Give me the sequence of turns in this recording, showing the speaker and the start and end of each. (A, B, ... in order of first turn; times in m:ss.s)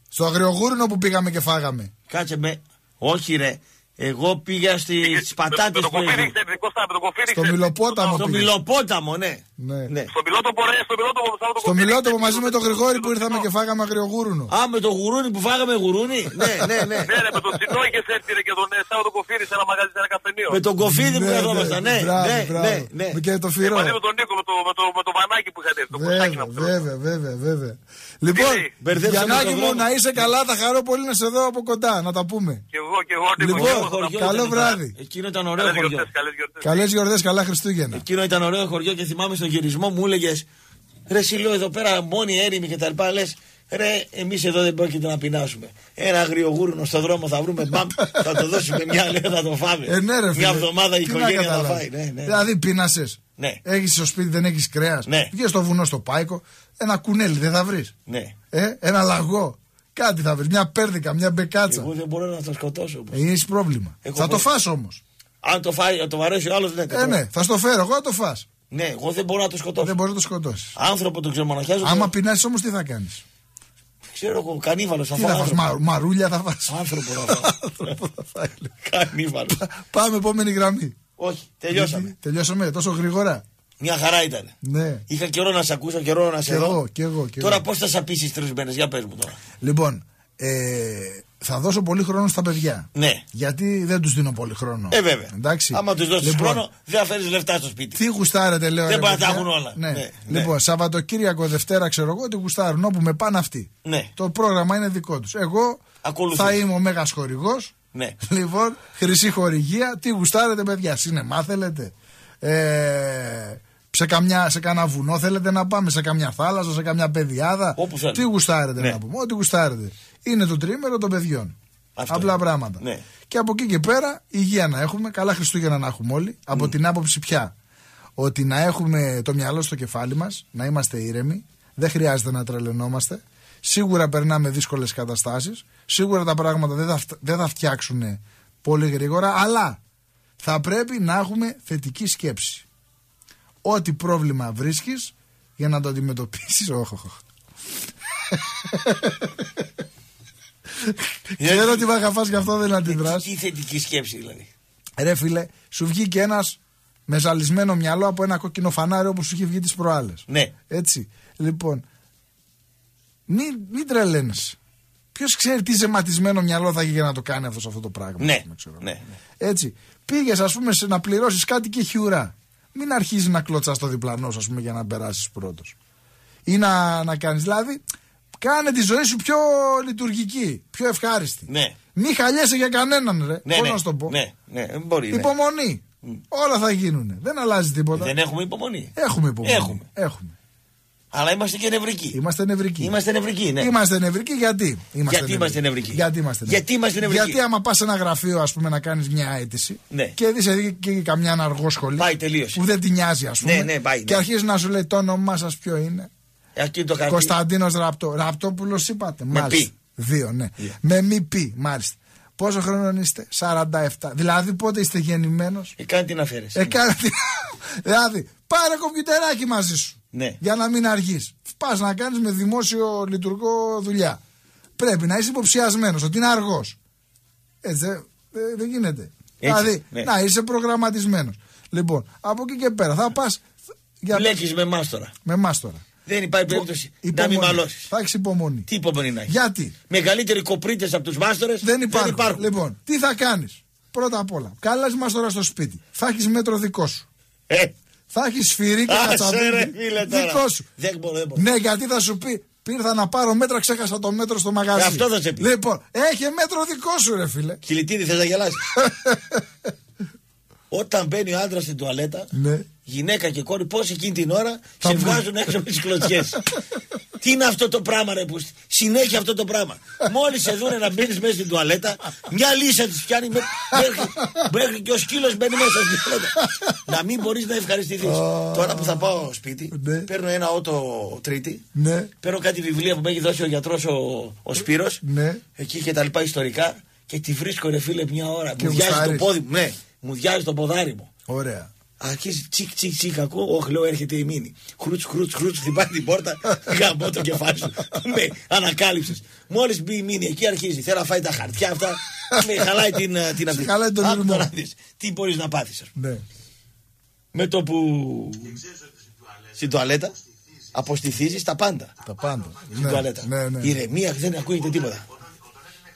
0:00.1-0:01.9 A
0:02.1-0:06.3 B
0:05.0-0:08.3 C
0:07.3-0:08.5 A
0:08.1-0:10.1 B
0:09.6-0:09.9 A
0:10.1-0:13.5 C
0:11.6-0:14.5 A
0:14.5-0:17.2 B
0:17.1-0:20.6 C
0:20.5-0:23.2 B
0:20.8-0:23.9 A
0:23.6-0:26.8 C
0:26.0-0:32.6 A
0:28.3-0:28.7 C
0:28.8-0:29.9 B
0:32.7-0:34.8 C
0:33.4-0:34.9 A
0:33.5-0:36.1 B
0:35.6-0:36.9 C
0:36.6-0:38.0 A
0:37.9-0:40.5 B
0:41.1-0:52.4 B
0:49.9-0:57.9 A
0:55.1-0:55.3 B
0:58.1-0:58.3 B
0:58.5-1:01.9 A
1:01.7-1:03.2 B
1:03.1-1:05.0 A
1:04.0-1:04.5 B
1:05.4-1:07.2 B
1:06.9-1:08.5 A
1:08.7-1:09.9 B
1:09.8-1:10.7 A
1:10.8-1:12.1 B
1:11.8-1:13.2 A
1:14.1-1:15.8 B
1:15.2-1:18.7 A
1:16.7-1:17.5 B
1:18.8-1:19.6 B
1:19.6-1:21.0 A
1:21.2-1:22.1 B
1:21.7-1:23.4 A
1:23.8-1:24.5 B
1:24.6-1:25.0 A
1:25.1-1:26.8 B
1:26.5-1:27.6 A
1:27.4-1:29.4 B
1:29.6-1:36.6 A
1:33.0-1:33.2 B
1:34.9-1:38.0 B
1:38.0-2:01.6 A
1:38.9-1:40.5 B
1:43.8-1:44.1 B
1:46.0-1:46.6 B
1:57.8-1:58.3 B
2:02.0-2:03.0 B
2:02.1-2:07.5 A
2:08.2-2:19.8 A
2:20.4-2:22.6 A
2:23.6-2:27.2 A
2:28.6-2:29.6 A
2:30.8-2:33.3 A
2:31.4-2:31.8 B
2:32.9-2:34.5 B
2:35.0-2:41.8 A
2:43.3-2:44.6 A
2:45.1-2:48.9 A
2:48.2-2:49.2 B
2:49.4-2:55.8 A
2:56.5-2:57.8 A
2:58.4-3:04.2 A
3:01.5-3:01.8 B
3:03.4-3:05.3 B
3:05.1-3:08.1 A
3:08.0-3:09.8 B
3:09.0-3:10.4 A
3:11.1-3:12.2 B
3:12.1-3:12.9 A
3:12.8-3:13.7 B
3:13.6-3:26.1 A
3:15.1-3:17.4 B
3:22.0-3:22.6 B
3:23.4-3:24.2 B
3:26.6-3:27.3 B
3:27.1-3:35.7 A
3:29.3-3:29.7 B
3:35.8-3:36.8 B
3:36.5-3:44.2 A
3:40.1-3:40.4 B
3:44.8-3:46.8 A
3:47.6-3:53.4 A
3:49.4-3:50.1 B
3:54.0-3:54.4 A
3:54.1-3:55.1 B
3:55.2-3:55.8 A
3:56.1-3:57.9 B
3:56.5-3:58.7 A
3:58.7-3:59.4 B
3:59.3-3:59.7 A
3:59.9-4:02.5 B
4:01.6-4:07.1 A
4:08.1-4:10.7 A
4:08.9-4:11.5 B
4:11.4-4:17.6 A
4:14.7-4:15.5 B
4:17.6-4:18.6 B
4:18.8-4:19.4 A
4:20.7-4:22.3 B
4:22.3-4:22.7 A
4:22.9-4:26.4 B
4:24.8-4:25.3 A
4:27.2-4:36.4 B
4:33.7-4:34.5 A
4:36.4-4:36.8 A
4:36.9-4:41.6 B
4:38.0-4:39.1 A
4:39.7-4:40.1 A
4:41.8-4:42.1 A
4:42.2-4:45.0 B
4:45.0-4:45.4 A
4:45.6-4:51.1 B
4:48.6-4:49.3 A
4:51.3-4:51.7 A
4:52.0-5:05.9 B
5:02.3-5:02.7 A
5:03.5-5:04.5 A
5:06.0-5:06.2 A
5:07.3-5:08.6 B
5:09.6-5:10.2 B
5:10.7-5:11.9 B
5:12.0-5:13.7 A
5:12.8-5:15.1 B